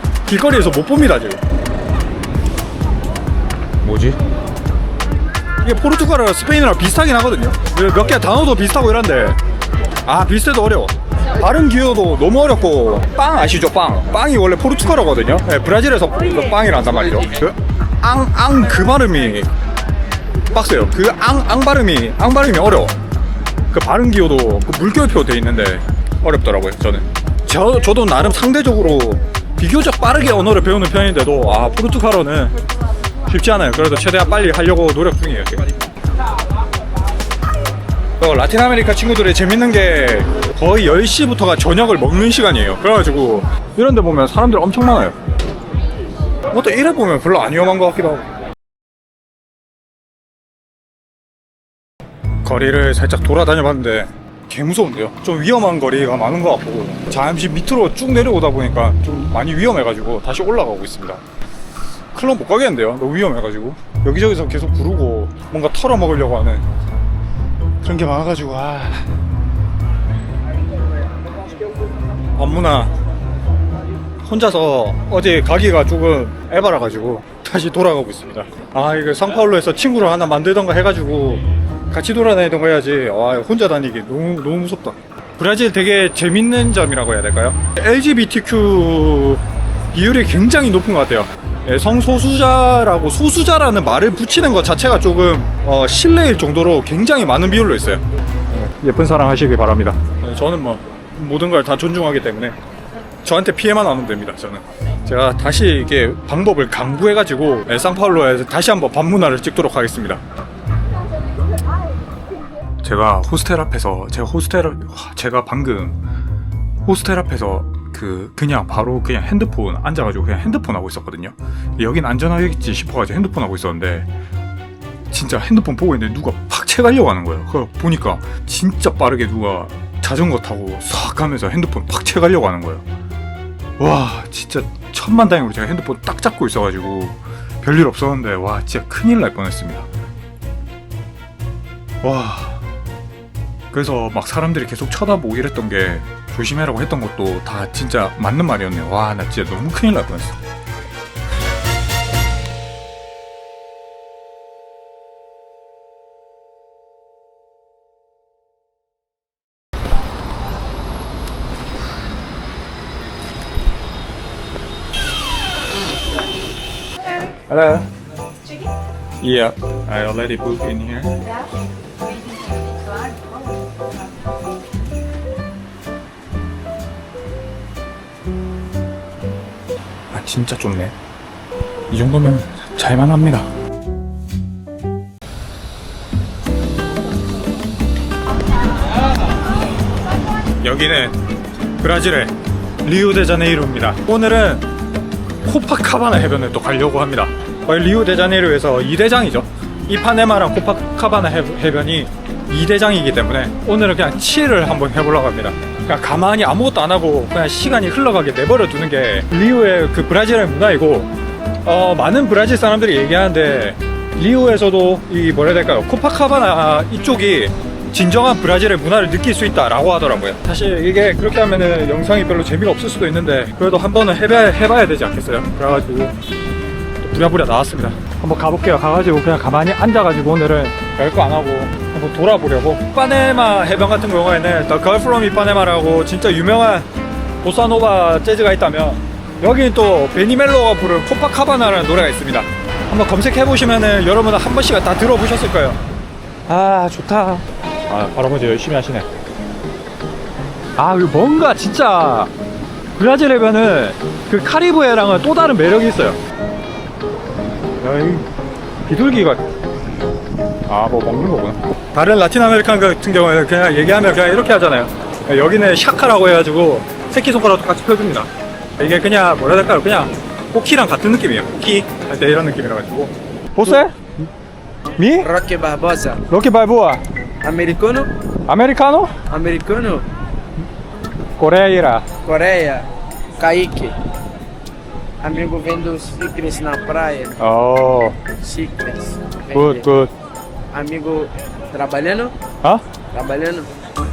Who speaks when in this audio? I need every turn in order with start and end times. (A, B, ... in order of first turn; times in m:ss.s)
0:00.2-0:01.4 A
0:03.8-0:04.2 A
0:05.6-0:09.4 A
0:10.0-0:19.5 A
0:20.5-0:23.0 A
0:23.7-0:32.5 A
0:33.2-0:35.7 A
0:38.2-0:45.2 A
0:46.5-0:48.3 A
0:52.4-1:01.2 A
1:02.1-1:06.7 A
1:07.8-1:09.0 A
1:12.4-1:12.9 A
1:14.2-1:29.4 A
1:29.9-1:42.6 A
1:43.2-1:50.2 A
1:52.8-1:56.0 A
1:56.8-2:04.1 A
2:05.1-2:12.8 A
2:13.8-2:19.9 A
2:22.0-2:22.6 A
2:23.7-2:30.4 A
2:47.5-2:47.9 A
2:49.2-2:51.2 A
3:00.1-3:00.9 A
3:01.9-3:03.5 A
3:10.6-3:11.1 A
3:11.8-3:14.7 A
3:15.4-3:31.1 A
3:31.6-3:46.1 A
3:47.0-3:56.9 A
3:57.4-4:05.8 A
4:06.5-4:09.1 A
4:10.8-4:12.3 A
4:13.0-4:16.2 A
4:17.8-4:18.3 A
4:18.8-4:19.4 A
4:20.6-4:34.2 A
4:35.0-4:35.3 A
4:35.2-4:36.2 B
4:36.3-4:37.0 A
4:37.4-4:38.1 B
4:38.5-4:39.1 A
4:39.3-4:40.0 B
4:41.4-4:42.1 A
4:42.2-4:42.8 B
4:43.4-4:43.9 B
4:45.2-4:47.3 B
4:47.4-4:48.2 A
4:48.4-4:49.8 B
4:49.5-4:50.1 A
4:50.7-4:52.3 B
4:53.1-4:53.7 B